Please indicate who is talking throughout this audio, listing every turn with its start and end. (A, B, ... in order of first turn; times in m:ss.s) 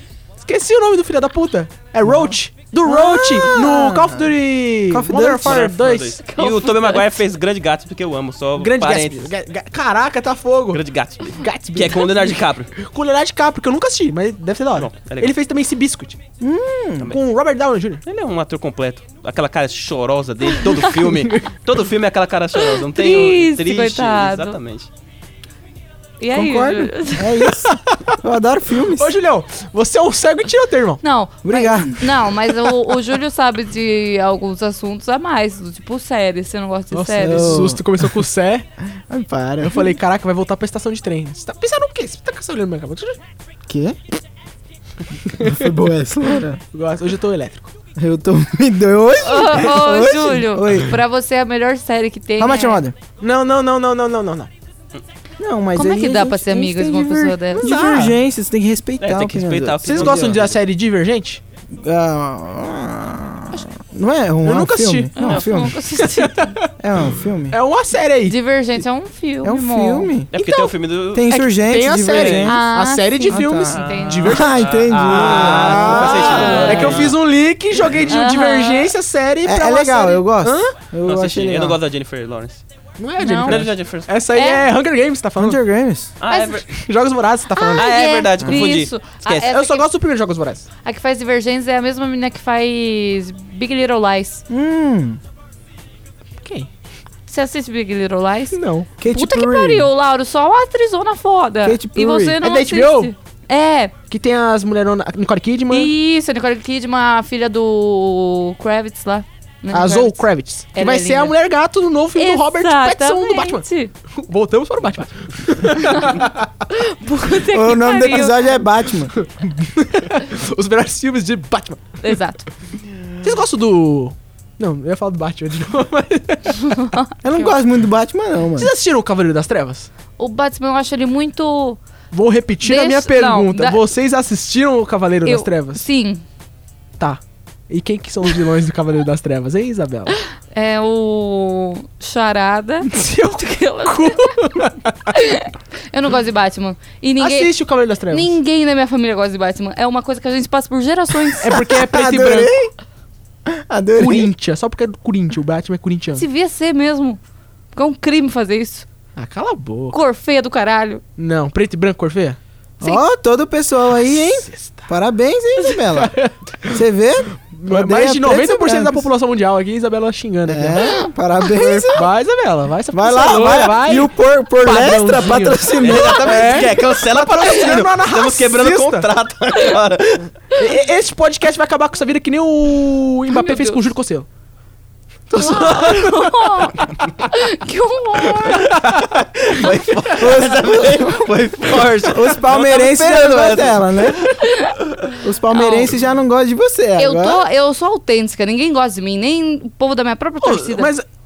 0:00.4-0:06.3 A
0:02.0-0:05.7 B
0:05.4-0:09.3 C
0:06.3-0:07.1 D
0:08.6-0:10.8 A
0:10.7-0:12.7 C
0:11.3-0:16.2 A
0:14.8-0:15.4 C
0:16.4-0:17.2 B
0:17.1-0:18.0 A
0:18.0-0:24.9 C
0:22.7-0:24.6 D
0:26.2-0:27.3 D
0:26.3-0:29.2 B
0:27.4-0:28.1 A
0:28.9-0:31.0 A
0:31.0-0:37.7 D
0:31.4-0:32.3 B
0:36.9-0:38.7 A
0:37.2-0:38.2 B
0:39.1-0:40.0 B
0:39.6-0:43.2 A
0:43.7-0:44.0 B
0:45.3-0:45.7 A
0:45.4-0:46.6 B
0:46.7-0:47.7 A
0:48.0-0:51.0 B
0:49.2-0:52.8 D
0:52.4-0:53.0 B
0:53.2-0:54.5 A
0:55.4-1:00.4 B
0:55.8-0:57.8 D
0:57.6-0:58.2 A
0:59.0-1:00.6 C
0:59.8-1:01.4 A
1:01.7-1:05.8 B
1:04.4-1:05.1 A
1:05.2-1:06.6 D
1:06.0-1:06.7 A
1:06.8-1:07.6 B
1:07.5-1:08.4 A
1:08.3-1:10.7 D
1:09.4-1:10.3 B
1:10.3-1:11.4 C
1:11.1-1:12.6 B
1:11.3-1:14.5 A
1:12.0-1:12.5 C
1:12.4-1:14.4 D
1:13.3-1:17.0 B
1:13.7-1:17.2 C
1:15.1-1:20.7 A
1:16.0-1:17.1 D
1:18.1-1:18.9 D
1:19.4-1:21.8 B
1:21.0-1:22.6 C
1:23.0-1:25.6 A
1:23.2-1:23.6 D
1:23.4-1:24.1 C
1:24.3-1:24.7 D
1:25.4-1:26.1 B
1:26.2-1:26.7 C
1:26.3-1:26.6 D
1:26.7-1:27.9 A
1:27.6-1:29.8 D
1:27.8-1:29.5 C
1:28.4-1:28.7 B
1:29.4-1:30.7 A
1:30.8-1:34.4 D
1:34.5-1:35.2 B
1:36.4-1:36.7 A
1:37.3-1:43.9 D
1:38.5-1:38.9 A
1:39.0-1:39.9 B
1:41.6-1:42.4 B
1:42.4-1:43.1 A
1:44.1-1:45.9 A
1:45.7-1:51.4 D
1:49.7-1:56.5 A
1:52.2-1:53.9 D
1:56.7-1:58.6 D
1:57.5-1:59.1 B
1:59.2-2:02.1 A
2:02.0-2:02.5 D
2:03.2-2:06.6 A
2:06.7-2:07.5 D
2:07.2-2:08.7 B
2:08.6-2:09.9 A
2:10.2-2:11.8 D
2:12.1-2:15.8 A
2:12.6-2:13.8 D
2:15.2-2:16.2 D
2:17.0-2:20.2 A
2:20.5-2:24.4 D
2:22.9-2:25.1 A
2:25.1-2:27.5 D
2:27.2-2:28.4 A
2:28.1-2:31.6 D
2:31.4-2:32.5 A
2:31.5-2:32.7 B
2:33.5-2:34.3 B
2:34.0-2:36.2 A
2:36.2-2:37.2 D
2:37.7-2:38.9 D
2:39.2-2:40.0 A
2:39.9-2:41.0 D
2:41.2-2:42.4 A
2:42.8-2:46.1 B
2:44.0-2:44.9 A
2:45.9-2:46.8 A
2:46.7-2:49.1 B
2:47.6-2:51.0 A
2:50.5-2:52.1 B
2:51.6-2:59.1 A
2:52.9-2:56.7 B
2:55.8-3:00.3 C
3:00.5-3:04.3 A
3:03.3-3:03.8 D
3:05.3-3:06.9 A
3:05.4-3:08.7 D
3:08.2-3:09.1 A
3:08.8-3:13.8 C
3:10.1-3:11.5 B
3:12.0-3:14.3 B
3:14.4-3:14.8 D
3:15.2-3:17.4 B
3:15.5-3:15.9 D
3:17.0-3:20.9 D
3:20.4-3:21.0 A